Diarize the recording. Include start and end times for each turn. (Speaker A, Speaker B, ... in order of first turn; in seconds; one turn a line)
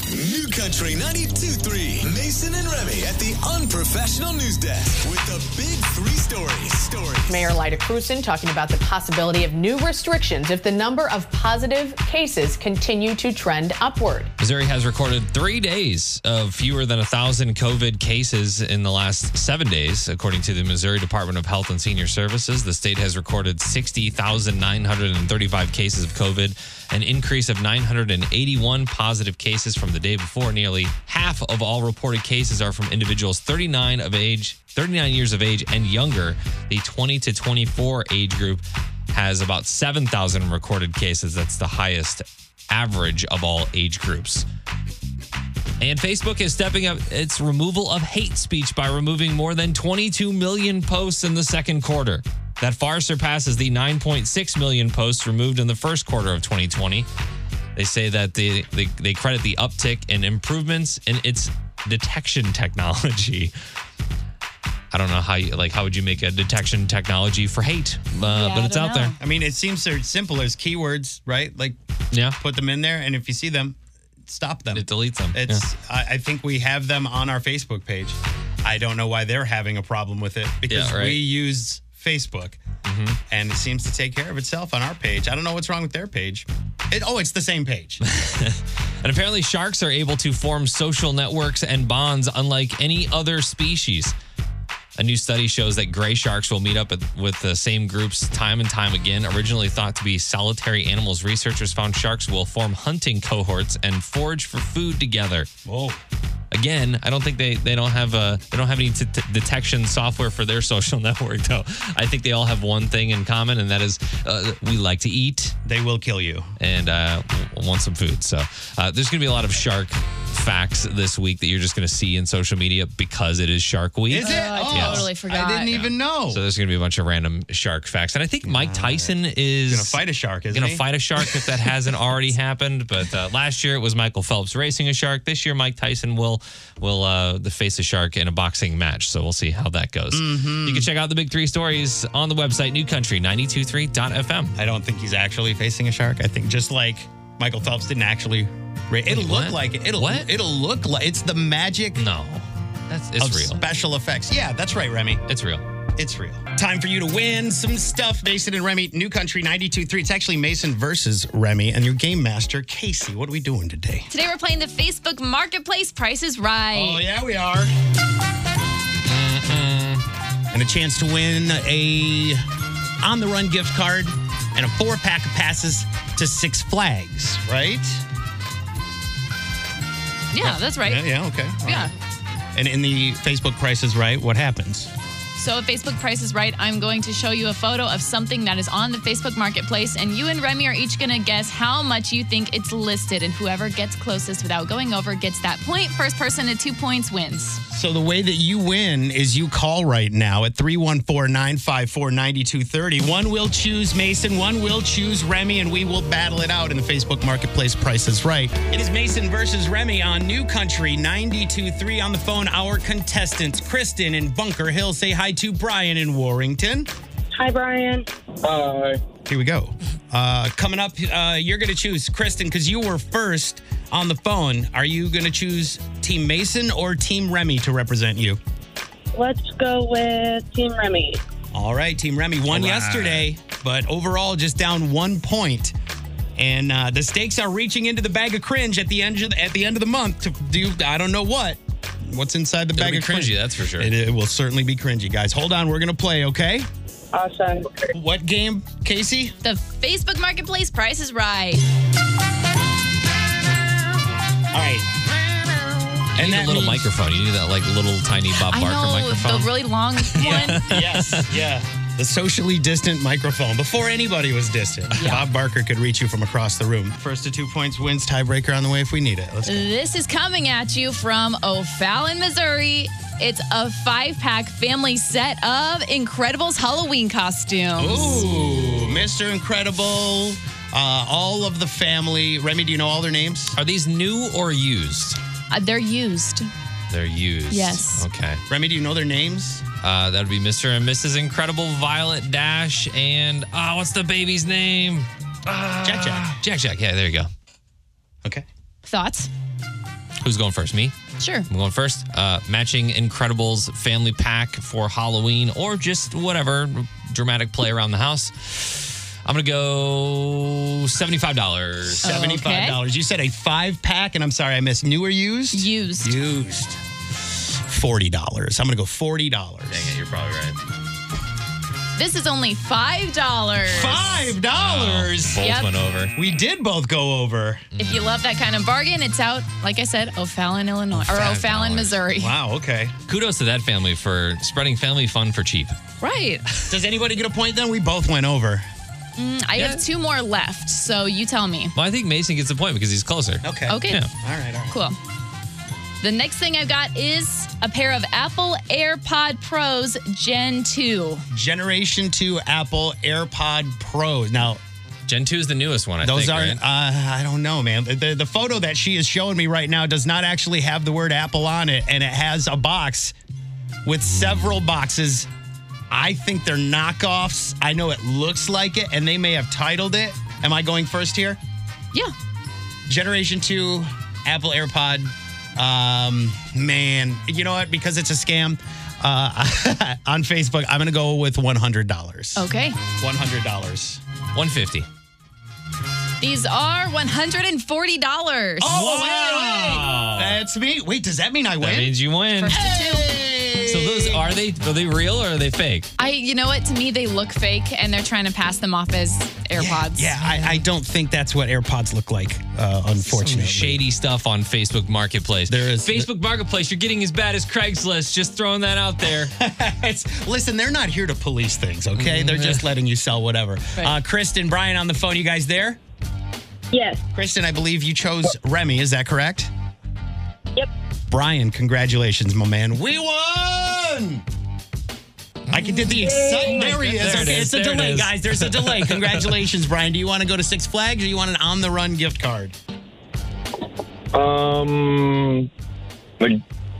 Speaker A: 0.1-7.5
Speaker B: 7.3-14.3
Speaker C: 14.4-44.4
Speaker C: 45.8-57.1
Speaker C: 57.8-63.5
Speaker C: 64.9-69.1
Speaker D: 68.2-69.2
Speaker E: 69.2-71.8
Speaker C: 72.1-72.4
Speaker E: 72.4-82.6
Speaker C: 74.7-75.6
Speaker C: 80.7-81.2
Speaker C: 82.8-83.2
Speaker E: 83.3-88.0
Speaker C: 88.0-94.1
Speaker C: 95.0-105.5
Speaker E: 105.7-106.0
Speaker C: 106.5-115.5
Speaker E: 115.6-116.5
Speaker C: 116.6-125.1
Speaker E: 124.1-126.4
Speaker D: 124.2-125.7
Speaker C: 125.7-130.0
Speaker E: 128.4-129.1
Speaker E: 129.7-131.7
Speaker C: 130.5-144.5
Speaker E: 140.1-140.9
Speaker E: 144.6-152.1
Speaker C: 149.1-150.3
Speaker C: 152.0-153.6
Speaker E: 153.2-155.2
Speaker C: 155.3-155.6
Speaker E: 156.0-164.1
Speaker D: 164.1-167.0
Speaker E: 166.7-167.7
Speaker C: 169.1-170.0
Speaker E: 170.5-172.4
Speaker E: 173.0-178.0
Speaker D: 180.3-181.1
Speaker E: 180.4-181.9
Speaker D: 181.6-181.9
Speaker E: 182.5-184.9
Speaker D: 185.4-197.6
Speaker E: 197.7-216.9
Speaker F: 217.3-218.9
Speaker E: 219.3-228.4
Speaker F: 229.1-231.2
Speaker E: 231.5-235.7
Speaker C: 232.5-233.2
Speaker E: 236.4-246.7
Speaker C: 242.8-243.9
Speaker F: 247.1-247.9
Speaker E: 247.9-249.3
Speaker D: 249.4-251.6
Speaker E: 254.5-256.9
Speaker C: 256.1-259.5
Speaker D: 258.4-260.6
Speaker C: 260.0-261.3
Speaker E: 260.2-269.7
Speaker D: 265.0-265.2
Speaker D: 269.4-278.3
Speaker E: 277.8-283.6
Speaker C: 283.6-285.2
Speaker D: 285.5-286.5
Speaker C: 286.9-288.4
Speaker D: 287.5-288.0
Speaker E: 288.5-289.6
Speaker C: 289.8-297.3
Speaker E: 295.8-296.4
Speaker D: 298.8-299.3
Speaker C: 300.2-300.9
Speaker D: 301.2-301.5
Speaker C: 301.5-312.1
Speaker E: 311.9-316.8
Speaker D: 312.0-312.8
Speaker D: 315.5-316.2
Speaker E: 317.4-319.9
Speaker C: 319.7-320.6
Speaker D: 322.0-324.1
Speaker E: 323.7-325.4
Speaker C: 323.8-326.1
Speaker D: 325.4-325.7
Speaker E: 326.1-327.6
Speaker C: 327.8-328.1
Speaker D: 327.8-332.3
Speaker C: 330.9-332.0
Speaker E: 332.1-333.0
Speaker C: 333.1-335.7
Speaker D: 336.0-336.7
Speaker E: 336.7-338.7
Speaker D: 339.2-341.7
Speaker C: 339.6-339.8
Speaker C: 341.7-344.1
Speaker E: 343.4-344.8
Speaker D: 343.7-344.0
Speaker D: 344.7-345.0
Speaker D: 346.0-351.2
Speaker E: 351.3-354.6
Speaker C: 355.1-356.6
Speaker E: 356.0-363.1
Speaker E: 363.8-365.3
Speaker C: 364.1-364.5
Speaker E: 365.9-371.4
Speaker E: 372.9-382.4
Speaker D: 382.4-382.8
Speaker E: 383.0-384.0
Speaker C: 384.3-384.9
Speaker D: 386.2-388.8
Speaker E: 388.6-391.9
Speaker C: 388.6-390.3
Speaker C: 391.6-392.6
Speaker D: 392.4-393.1
Speaker E: 392.5-394.2
Speaker C: 393.6-395.9
Speaker D: 396.0-400.1
Speaker E: 399.5-403.8
Speaker C: 400.2-400.6
Speaker C: 403.0-409.3
Speaker E: 405.5-406.1
Speaker E: 409.3-415.8
Speaker C: 411.9-412.6
Speaker F: 416.7-417.0
Speaker E: 417.1-419.5
Speaker E: 421.1-424.2
Speaker C: 425.5-429.3
Speaker E: 425.5-432.5
Speaker F: 426.1-426.5